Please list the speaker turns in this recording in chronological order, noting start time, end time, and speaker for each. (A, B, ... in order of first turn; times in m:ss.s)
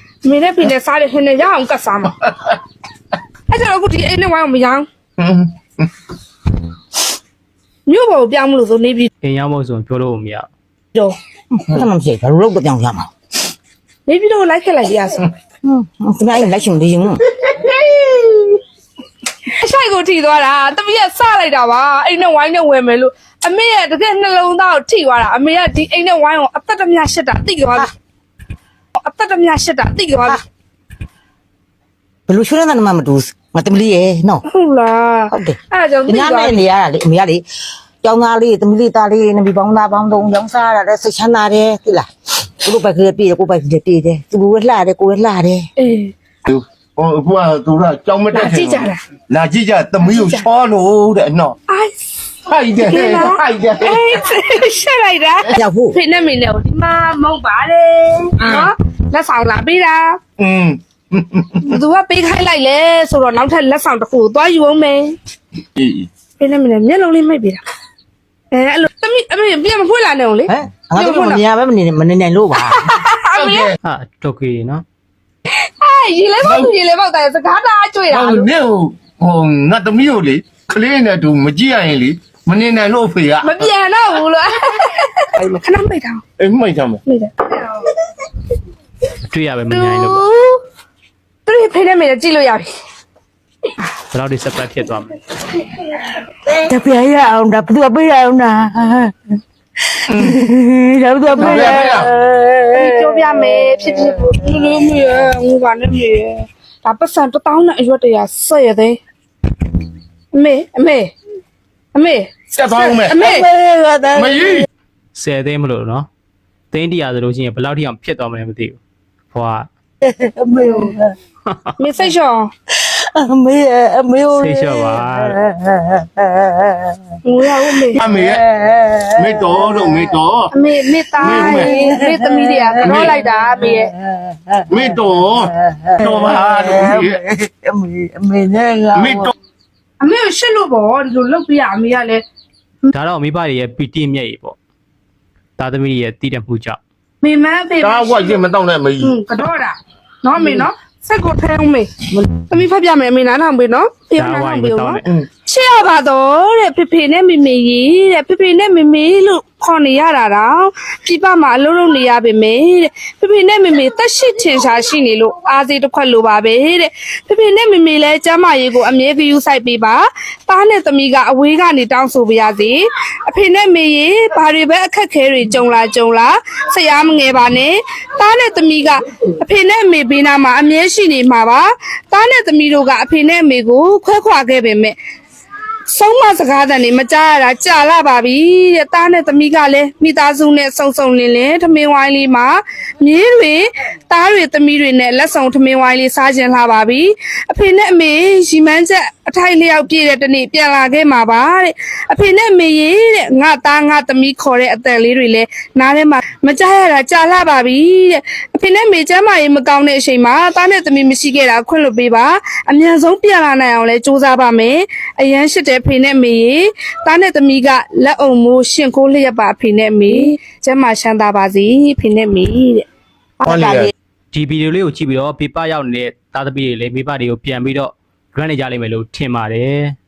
0:00.2-0:02.2 A
0:03.5-0:04.9 A
0:05.2-0:05.9 B
0:07.9-0:09.1 A
0:09.2-0:10.5 C
0:11.6-0:13.1 D
0:14.1-0:15.2 A
0:15.6-0:17.2 D
0:17.4-0:18.6 A
0:19.4-0:27.9 A
0:29.0-0:30.4 A
0:32.3-0:34.4 D
0:34.5-0:36.6 A
0:35.3-0:37.4 D
0:38.0-0:42.1 D
0:42.6-0:45.7 D
0:45.8-0:46.1 A
0:46.4-0:51.6 B
0:48.3-0:49.0 A
0:50.0-0:50.4 A
0:51.7-0:52.0 A
0:52.4-0:54.2 B
0:52.8-1:00.2 A
0:55.5-0:56.0 D
0:58.4-0:58.7 B
1:00.4-1:01.8 B
1:01.6-1:05.2 A
1:05.8-1:06.1 B
1:06.4-1:07.6 A
1:08.5-1:11.4 A
1:10.5-1:13.0 D
1:12.6-1:13.7 A
1:13.3-1:13.8 B
1:13.8-1:14.8 C
1:15.5-1:18.5 A
1:16.4-1:16.7 B
1:18.1-1:23.6 B
1:23.4-1:26.2 A
1:26.4-1:27.0 B
1:27.1-1:28.0 A
1:29.3-1:30.2 C
1:29.9-1:30.6 D
1:31.5-1:32.7 A
1:34.1-1:35.2 C
1:36.3-1:39.2 D
1:39.9-1:44.4 D
1:40.1-1:40.4 B
1:41.3-1:41.8 A
1:41.4-1:42.1 B
1:42.8-1:49.0 A
1:50.3-1:51.1 A
1:52.0-1:53.5 A
1:52.5-1:53.2 B
1:53.2-1:54.7 D
1:54.2-1:54.7 B
1:55.2-1:56.1 C
1:56.7-1:58.8 C
1:59.3-1:59.7 C
2:00.0-2:01.2 D
2:01.8-2:02.5 A
2:02.8-2:07.2 D
2:04.3-2:05.4 C
2:07.2-2:08.0 A
2:07.7-2:10.1 D
2:08.0-2:08.4 B
2:09.1-2:10.5 B
2:10.5-2:13.9 A
2:11.2-2:11.7 B
2:11.2-2:15.0 D
2:12.8-2:13.2 B
2:14.7-2:17.2 B
2:15.6-2:19.3 D
2:19.0-2:19.3 B
2:20.0-2:22.2 A
2:22.9-2:24.6 C
2:25.6-2:26.8 C
2:27.2-2:28.4 A
2:27.8-2:29.2 B
2:29.0-3:05.0 A
2:34.2-2:35.0 C
3:05.9-3:42.9 A
3:43.4-3:43.8 D
3:43.4-3:43.9 B
3:44.3-3:50.0 C